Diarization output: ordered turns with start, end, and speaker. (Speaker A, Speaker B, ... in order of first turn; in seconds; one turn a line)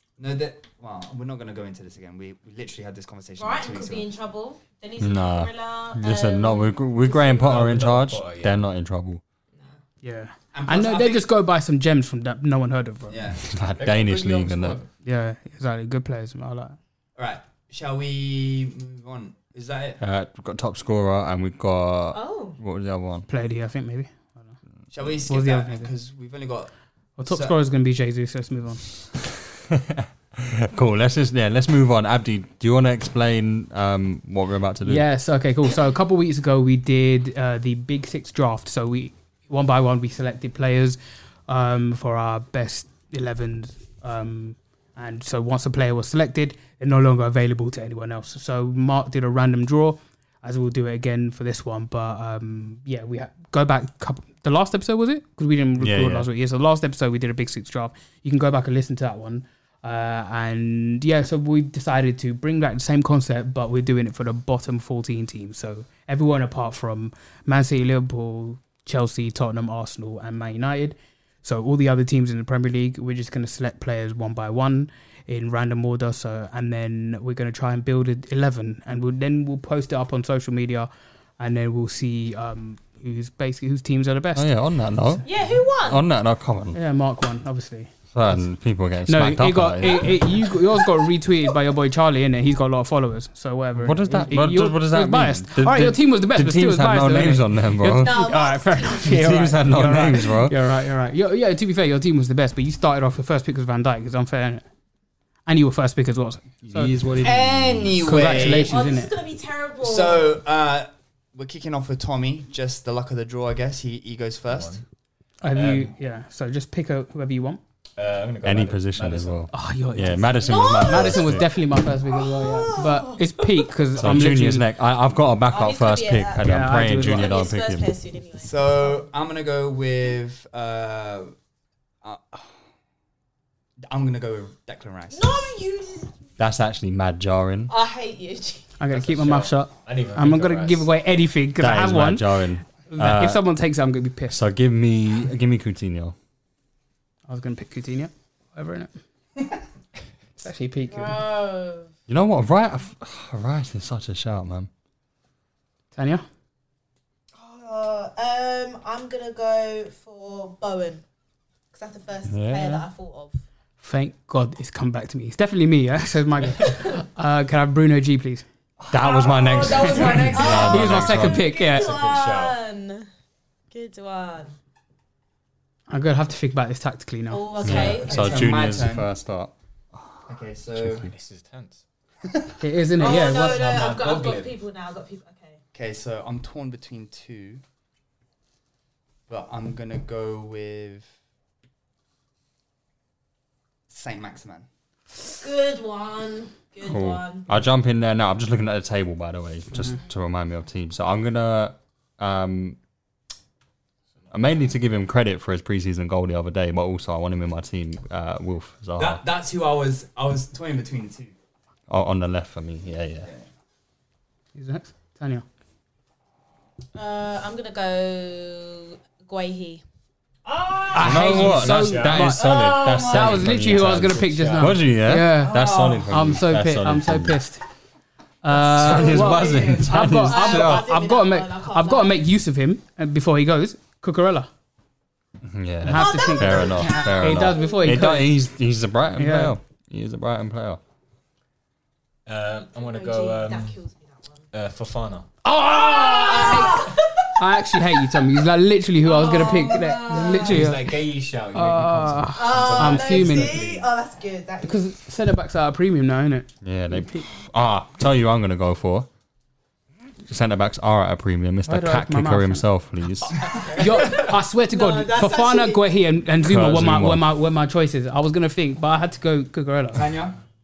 Speaker A: 0.2-4.1
Speaker B: 3.4-7.4
Speaker C: 5.0-9.2
Speaker D: 7.2-8.6
Speaker E: 10.0-13.2
Speaker A: 10.5-11.2
Speaker A: 13.1-13.4
Speaker C: 13.4-14.8
Speaker D: 13.8-14.9
Speaker E: 15.0-16.8
Speaker A: 17.2-20.0
Speaker C: 20.0-23.3
Speaker B: 22.1-22.6
Speaker E: 23.3-24.4
Speaker A: 24.9-26.7
Speaker E: 25.3-25.9
Speaker E: 27.2-28.8
Speaker A: 27.3-27.5
Speaker C: 29.7-35.0
Speaker E: 34.8-84.5
Speaker C: 55.8-56.3
Speaker C: 84.3-86.8
Speaker B: 85.2-86.0
Speaker E: 86.7-88.3
Speaker C: 88.1-90.2
Speaker E: 89.1-104.6
Speaker B: 90.7-91.0
Speaker C: 93.8-98.2
Speaker B: 97.8-99.6
Speaker C: 99.0-100.6
Speaker E: 105.5-106.9
Speaker C: 106.6-108.4
Speaker A: 107.2-108.7
Speaker E: 108.0-109.1
Speaker B: 108.5-110.4
Speaker A: 109.8-114.8
Speaker D: 114.5-114.8
Speaker E: 115.4-117.6
Speaker D: 115.5-115.9
Speaker D: 118.0-119.5
Speaker C: 118.4-121.5
Speaker E: 119.5-124.7
Speaker B: 120.3-121.4
Speaker B: 122.0-123.7
Speaker C: 124.0-127.9
Speaker B: 125.5-129.1
Speaker E: 126.4-127.3
Speaker A: 128.4-131.3
Speaker A: 132.0-132.5
Speaker A: 133.8-135.4
Speaker B: 135.1-136.1
Speaker C: 136.4-137.7
Speaker B: 137.7-138.7
Speaker E: 138.8-142.3
Speaker D: 138.9-140.9
Speaker C: 141.6-143.4
Speaker E: 142.9-144.4
Speaker C: 144.3-146.1
Speaker E: 147.3-148.9
Speaker E: 150.4-151.2
Speaker B: 150.9-151.9
Speaker C: 152.1-154.7
Speaker E: 155.9-156.2
Speaker B: 157.3-161.0
Speaker B: 161.7-163.4
Speaker C: 162.3-162.8
Speaker E: 163.8-168.4
Speaker A: 168.8-170.8
Speaker C: 168.9-171.4
Speaker B: 169.0-173.1
Speaker E: 170.4-171.9
Speaker D: 171.6-172.6
Speaker B: 173.7-174.5
Speaker E: 175.9-177.5
Speaker B: 177.3-178.5
Speaker C: 177.6-179.5
Speaker A: 177.6-179.1
Speaker A: 180.3-181.1
Speaker C: 180.8-181.1
Speaker D: 181.1-181.8
Speaker E: 182.6-183.7
Speaker B: 183.0-185.6
Speaker D: 183.0-184.6
Speaker A: 185.7-187.6
Speaker A: 189.3-191.1
Speaker A: 193.9-194.7
Speaker B: 195.1-197.5
Speaker C: 196.8-202.8
Speaker C: 204.3-209.2
Speaker A: 208.9-211.3
Speaker C: 211.9-213.3
Speaker E: 214.5-215.4
Speaker B: 216.9-219.8
Speaker A: 220.4-223.4
Speaker E: 220.9-227.6
Speaker C: 221.0-227.4
Speaker D: 221.0-222.4
Speaker D: 224.4-224.8
Speaker A: 225.3-226.1
Speaker E: 228.4-234.5
Speaker C: 228.5-230.9
Speaker A: 228.7-230.0
Speaker B: 229.7-232.2
Speaker C: 235.4-240.8
Speaker E: 235.8-238.3
Speaker B: 235.9-237.8
Speaker E: 239.2-239.5
Speaker D: 242.2-243.8
Speaker B: 242.8-244.4
Speaker D: 244.5-245.3
Speaker E: 245.4-251.0
Speaker B: 245.6-248.1
Speaker B: 249.0-250.7
Speaker A: 249.3-250.1
Speaker D: 250.1-253.9
Speaker E: 251.5-253.6
Speaker B: 252.3-254.9
Speaker E: 254.6-257.2
Speaker C: 256.6-259.1
Speaker C: 260.2-263.5
Speaker E: 261.7-262.6
Speaker E: 263.5-270.0
Speaker B: 264.0-265.9
Speaker C: 266.4-267.3
Speaker A: 269.9-270.4